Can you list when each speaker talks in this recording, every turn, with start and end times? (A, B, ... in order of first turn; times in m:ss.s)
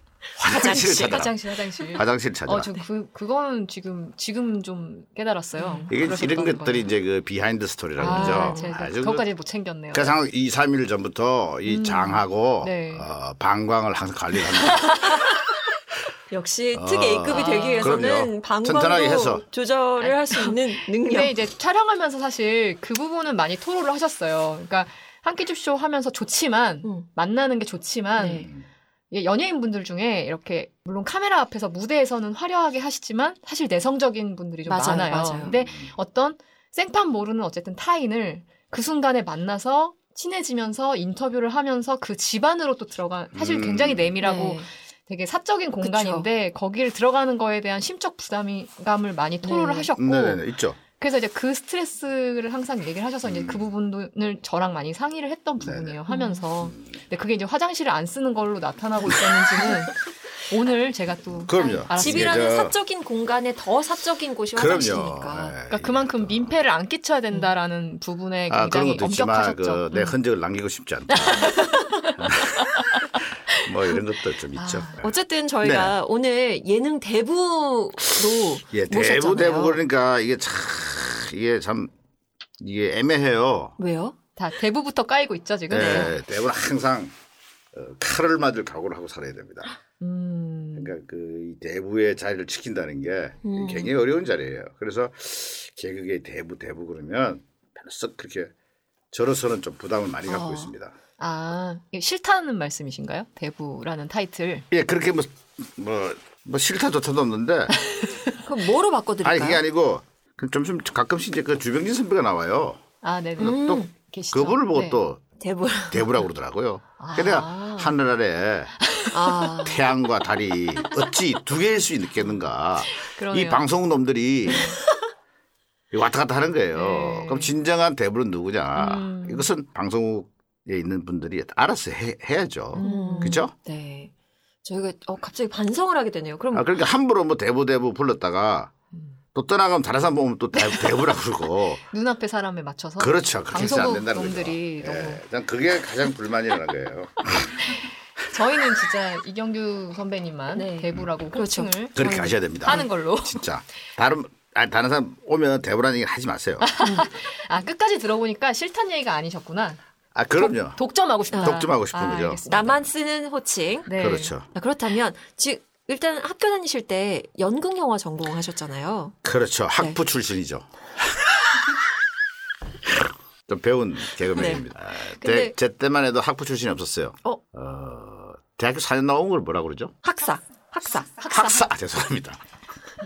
0:00.4-0:01.3 A
0:00.4-0:01.4 B
0:00.5-0:06.9 C
0:01.9-0:02.7 B
0:05.6-0:05.9 A
0:05.9-0:09.3 B
0:08.0-0:08.7 A
0:08.0-0:10.1 C
0:09.9-0:15.3 B
0:11.6-0:13.0 C
0:14.7-0:15.1 C
0:16.3-0:21.4 A
0:16.7-0:19.4 B
0:17.3-0:18.0 C
0:20.0-0:28.5 C
0:28.2-0:28.5 A
0:29.1-0:50.4 C
0:34.7-0:35.5 A
0:35.4-0:35.9 B
0:43.3-0:44.1 B
0:44.2-0:44.6 A
0:45.8-0:46.3 A
0:49.4-0:49.9 A
0:50.0-0:50.8 B
0:51.0-1:02.5 C
0:53.2-0:53.6 B
0:55.6-0:56.0 B
0:56.1-0:56.4 A
1:01.3-1:02.7 B
1:01.6-1:05.5 A
1:04.5-1:06.5 B
1:05.7-1:09.9 C
1:08.5-1:11.6 B
1:11.1-1:12.2 C
1:11.6-1:12.1 A
1:12.2-1:12.8 B
1:13.5-1:15.1 B
1:14.5-1:15.0 C
1:15.0-1:19.8 A
1:15.6-1:16.0 B
1:18.7-1:21.9 B
1:22.6-1:23.8 B
1:23.8-1:24.2 A
1:24.4-1:26.2 C
1:25.7-1:27.1 B
1:25.7-1:26.1 A
1:27.7-1:29.7 B
1:30.0-1:30.9 C
1:30.7-1:38.5 B
1:33.4-1:34.0 A
1:39.1-1:40.9 B
1:40.3-1:40.7 A
1:41.2-1:44.6 C
1:44.7-1:47.7 B
1:47.8-1:48.4 C
1:48.4-1:49.6 A
1:49.2-1:52.8 B
1:53.0-1:55.0 C
1:53.4-1:55.2 B
1:53.4-1:53.9 A
1:55.4-1:56.1 A
1:55.9-1:58.7 B
1:57.0-1:57.9 C
1:58.9-1:59.5 C
1:59.1-1:59.8 A
1:59.6-2:04.8 B
2:02.9-2:03.6 C
2:04.4-2:04.8 C
2:05.9-2:13.5 B
2:06.7-2:07.5 C
2:08.7-2:09.5 C
2:12.7-2:13.4 C
2:12.8-2:14.1 A
2:14.6-2:16.7 A
2:16.5-2:18.7 B
2:19.4-2:21.8 B
2:21.9-2:25.2 C
2:23.0-2:27.6 B
2:28.3-2:32.0 C
2:30.5-2:32.9 A
2:32.0-2:36.7 B
2:32.6-2:33.4 C
2:36.6-2:39.8 C
2:36.8-2:37.1 A
2:40.1-2:40.8 B
2:40.4-2:42.8 C
2:41.3-2:41.6 A
2:41.4-2:42.4 B
2:42.4-2:43.9 A
2:43.9-2:44.3 C
2:44.0-2:44.5 B
2:44.5-2:49.2 A
2:49.2-2:51.7 B
2:52.8-2:59.9 B
2:54.3-2:55.5 A
3:00.0-3:01.1 A
3:01.2-3:02.4 B
3:01.2-3:01.5 C